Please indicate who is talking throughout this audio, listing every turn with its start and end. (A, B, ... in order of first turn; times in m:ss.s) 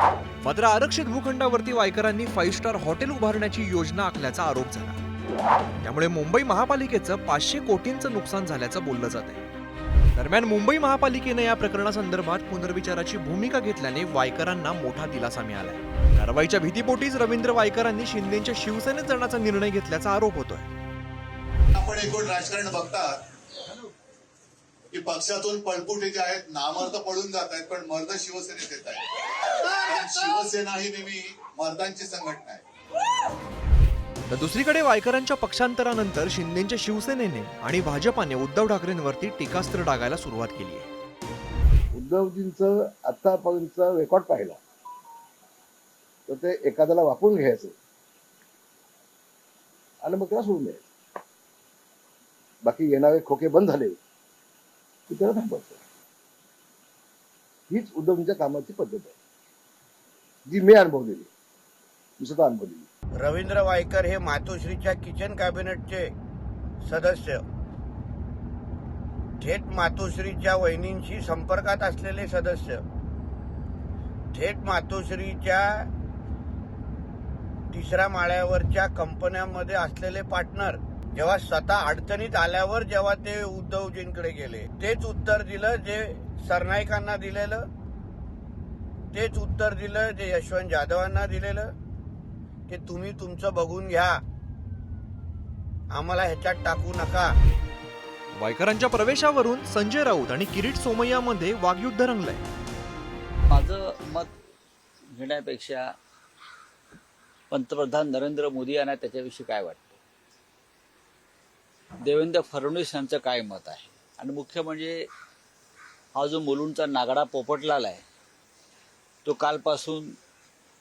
0:00.4-0:05.0 A
0:05.8-0:09.5 A
0:10.1-0:20.7 A
0:21.8-0:23.1 B
0:25.0-0:29.0 B
0:29.8-0:32.6 B
0:34.3-0:40.9 A
0:41.9-0:44.6 C
0:46.3-0:47.7 C
0:50.0-0:50.8 C
0:52.6-0:54.0 C
0:55.1-0:55.8 C
0:57.7-0:59.1 C
1:00.5-1:01.3 C
1:02.2-1:02.8 C
1:03.2-1:06.1 D
1:06.8-1:07.4 D
1:09.4-1:12.8 D
1:14.3-1:15.9 D
1:17.7-1:27.6 D
1:29.1-1:31.7 D
1:32.7-1:34.2 D
1:35.9-1:37.4 D
1:38.4-1:42.4 A
1:43.5-1:44.3 E
1:45.1-1:45.9 E
1:47.5-1:50.0 E
1:52.0-1:55.1 E
1:56.2-1:58.0 E
1:59.2-2:00.2 E